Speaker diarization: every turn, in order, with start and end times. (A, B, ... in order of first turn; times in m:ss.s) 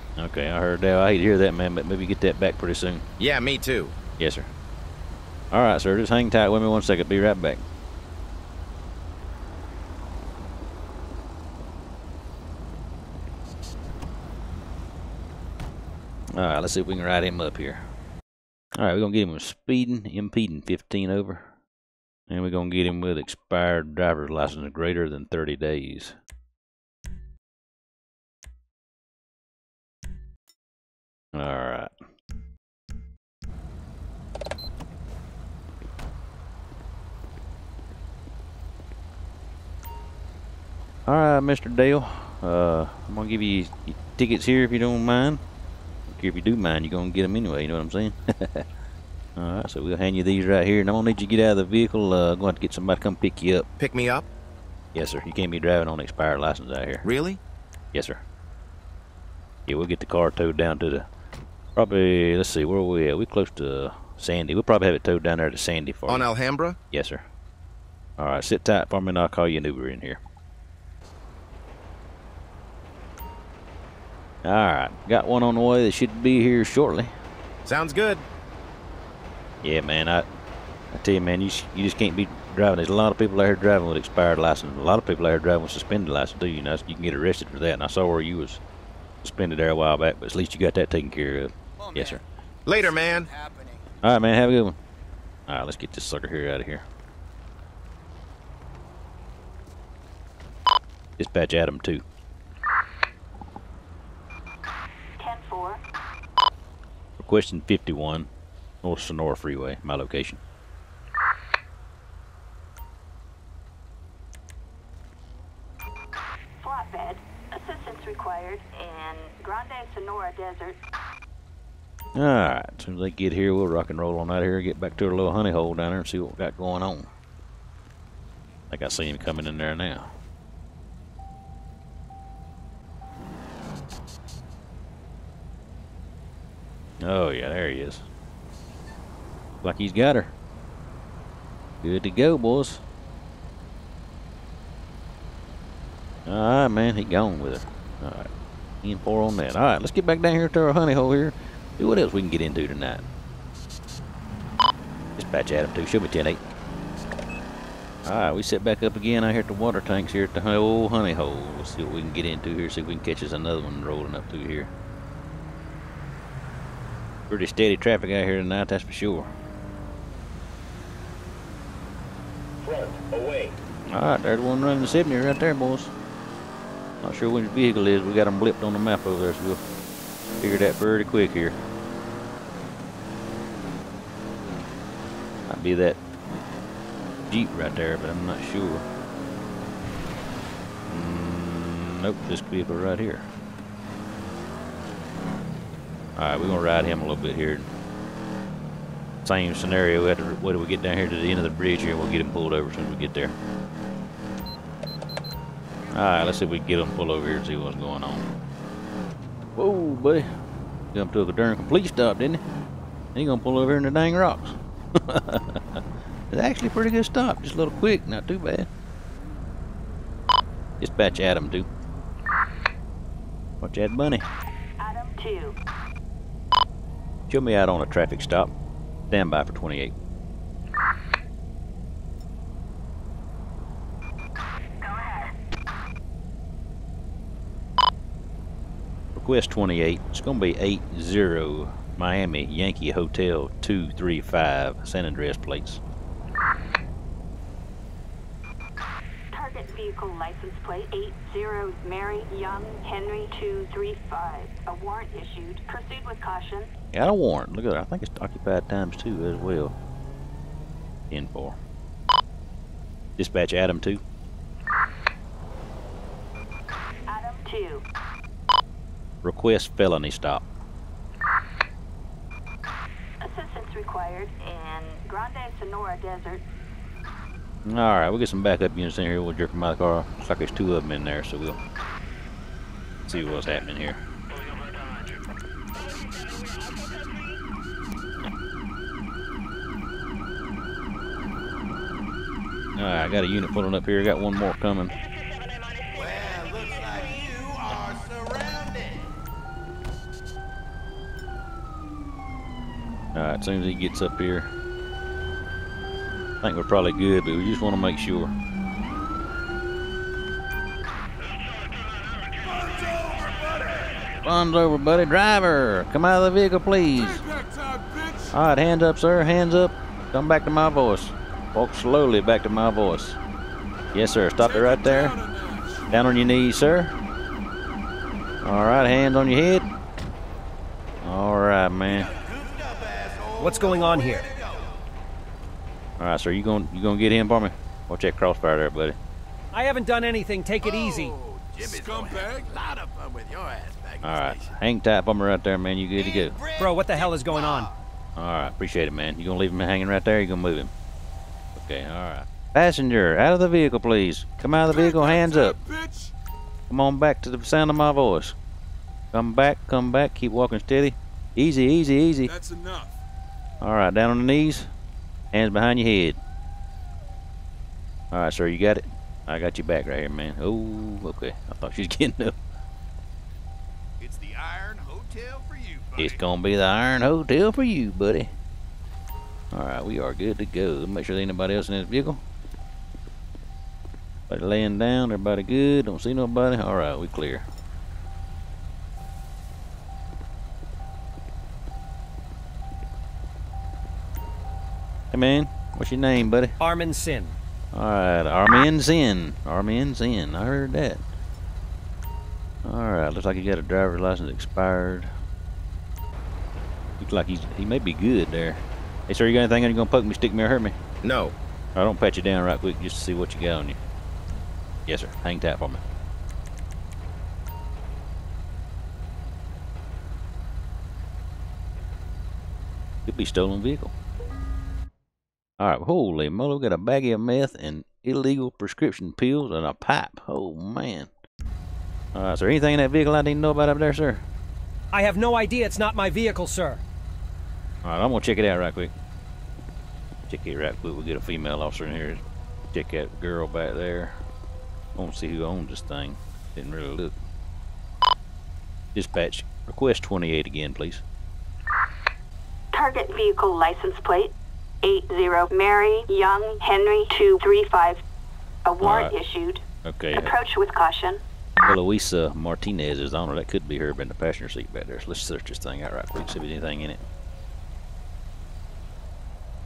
0:00.2-0:03.0 A
0:03.2-0:04.0 B
0:04.2-0:04.5 A
0:05.5-0:07.6 A
0:16.3-0:17.8 A
0:18.8-0:21.5 A
0:22.3-0:26.2 A
0:31.3-0:31.9 A
0:41.1-0:45.4 A
0:46.1-0:48.6 A
0:49.4-0:53.7 A
0:53.8-0:54.3 B
0:54.9-0:57.0 A
0:57.0-0:57.4 B
0:57.9-0:58.2 A
0:59.7-1:01.0 A
1:01.7-1:06.3 A
1:06.1-1:06.8 B
1:06.9-1:07.2 A
1:08.2-1:10.2 A
1:14.4-1:17.1 A
1:17.6-1:18.2 B
1:19.6-1:20.2 A
1:20.9-1:28.6 A
1:29.2-1:32.2 A
1:31.8-1:34.0 C
1:32.7-1:33.3 B
1:34.0-1:34.8 A
1:35.5-1:36.8 A
1:41.2-1:42.0 A
1:45.2-1:45.8 D
1:47.2-1:48.3 A
1:48.8-1:50.4 A
1:56.6-2:00.8 D
2:02.1-2:07.1 A
2:08.7-2:10.1 A
2:17.0-2:18.0 A
2:19.6-2:20.3 A
2:21.8-2:22.8 A
2:26.2-2:28.3 A
2:28.8-2:33.0 A
2:35.2-2:36.4 A
2:38.0-2:44.7 A
2:47.3-2:49.3 A
2:52.6-2:53.6 B
2:53.9-2:55.9 A
2:57.0-2:59.6 A
3:00.4-3:01.6 A
3:05.5-3:06.0 A
3:07.3-3:08.8 A
3:10.9-3:13.3 A
3:16.2-3:17.7 A
3:19.2-3:23.3 A
3:25.9-3:28.3 A
3:29.6-3:30.3 A
3:30.9-3:32.4 A
3:33.1-3:38.7 A
3:40.8-3:41.7 A
3:43.6-3:44.2 A
3:44.8-3:45.6 D
3:47.3-3:48.5 A
3:49.1-3:49.9 A
3:54.8-3:55.3 D
3:59.1-4:05.8 A
4:09.3-4:16.7 D
4:16.9-4:19.7 A
4:21.1-4:21.6 A
4:23.2-4:24.0 A
4:27.1-4:27.8 D
4:29.2-4:30.4 A
4:33.2-4:36.4 D
4:37.6-4:41.6 A
4:43.1-4:44.0 A
4:52.8-4:54.9 A
4:55.9-4:59.1 C
5:03.1-5:04.5 A
5:06.4-5:08.3 A
5:12.4-5:14.0 E
5:14.2-5:17.2 A
5:16.9-5:18.3 E
5:18.3-5:23.2 A
5:23.9-5:25.2 A
5:24.4-5:25.9 E
5:25.9-5:26.9 A
5:28.4-5:29.7 A
5:31.0-5:32.1 A
5:31.8-5:34.8 C
5:33.4-5:34.3 F
5:36.0-5:39.0 A
5:39.5-5:41.1 F
5:40.6-5:44.6 C
5:41.6-5:42.6 E
5:44.0-5:46.4 A
5:46.0-5:47.8 C
5:46.6-5:47.7 F
5:48.2-5:50.7 A
5:51.6-5:55.6 A
5:54.6-5:56.1 E
5:56.7-5:58.4 A
5:59.1-6:02.3 A
6:02.2-6:03.0 E
6:03.6-6:04.7 A
6:05.3-6:06.2 A
6:08.1-6:12.3 A
6:14.0-6:16.2 C
6:16.0-6:18.3 A
6:19.5-6:22.2 A
6:24.3-6:27.4 A
6:35.1-6:36.6 A
6:36.6-6:37.4 F
6:37.7-6:41.0 A
6:42.6-6:45.1 A
6:47.0-6:50.8 A
6:51.0-6:51.3 B
6:51.8-6:53.8 A
6:54.9-6:55.8 A
7:03.0-7:03.9 A
7:05.6-7:11.1 A
7:12.1-7:14.2 A
7:14.9-7:16.8 F
7:17.8-7:18.9 A
7:20.3-7:24.2 A
7:25.0-7:27.2 A
7:28.9-7:31.0 A
7:32.7-7:38.0 D
7:38.6-7:41.2 D
7:38.8-7:39.1 A
7:39.8-7:40.3 A
7:41.6-7:47.0 A